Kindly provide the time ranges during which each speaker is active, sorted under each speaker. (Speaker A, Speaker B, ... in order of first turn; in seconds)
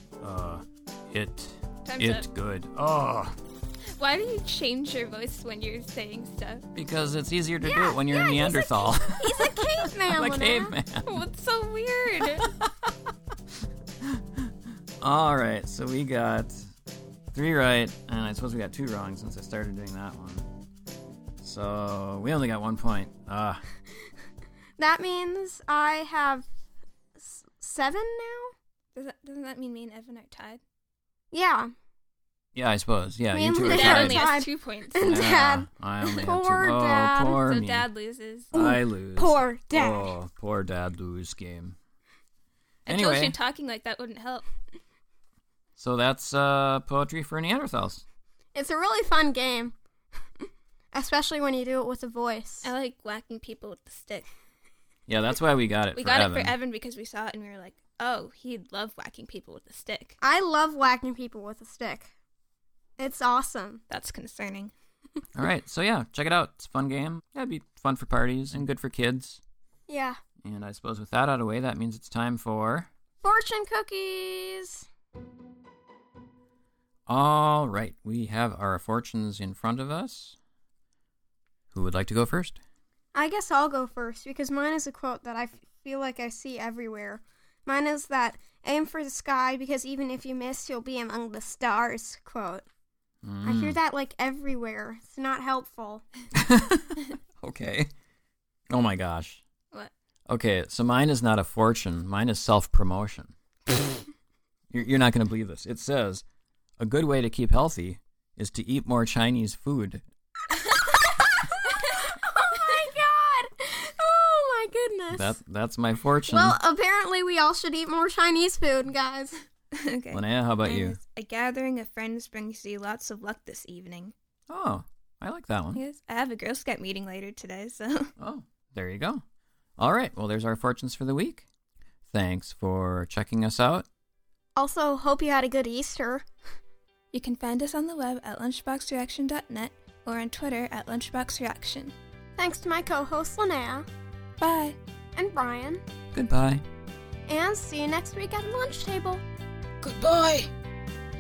Speaker A: 0.2-3.4, 6.8-11.2, 12.3-12.9, 14.0-14.5, 15.0-16.6, 17.3-20.5, 21.4-23.6, 32.5-34.3, 35.0-37.9, 38.5-41.8, 42.9-43.4, 45.8-48.0, 55.1-56.5, 65.3-69.4, 70.4-72.9, 77.1-80.4, 81.7-82.6, 93.2-93.8, 96.3-97.9, 98.7-99.4, 100.3-103.3, 104.7-106.2, 106.8-110.0, 115.1-116.6, 120.1-121.0, 124.5-125.8, 128.2-129.2, 129.8-131.5, 132.1-133.9, 146.1-146.6
Speaker B: 1.9-2.3, 3.9-6.6, 11.1-12.5, 28.9-30.6, 33.6-35.2, 37.4-38.5, 42.9-44.5, 52.6-54.3, 56.0-60.2, 63.9-64.7, 119.8-124.1, 125.8-128.1, 137.1-141.9, 144.4-144.8, 149.8-150.5
Speaker C: 7.7-10.8, 24.8-26.5, 27.2-28.5, 31.3-31.7, 33.3-37.4, 38.5-40.1, 48.5-49.8, 50.9-52.7, 60.2-62.1, 63.0-63.8, 69.9-70.2, 73.2-74.8, 83.1-92.7, 93.4-96.0, 111.2-115.4, 116.3-119.4, 134.6-136.2, 142.4-143.9, 145.2-145.8, 147.3-149.2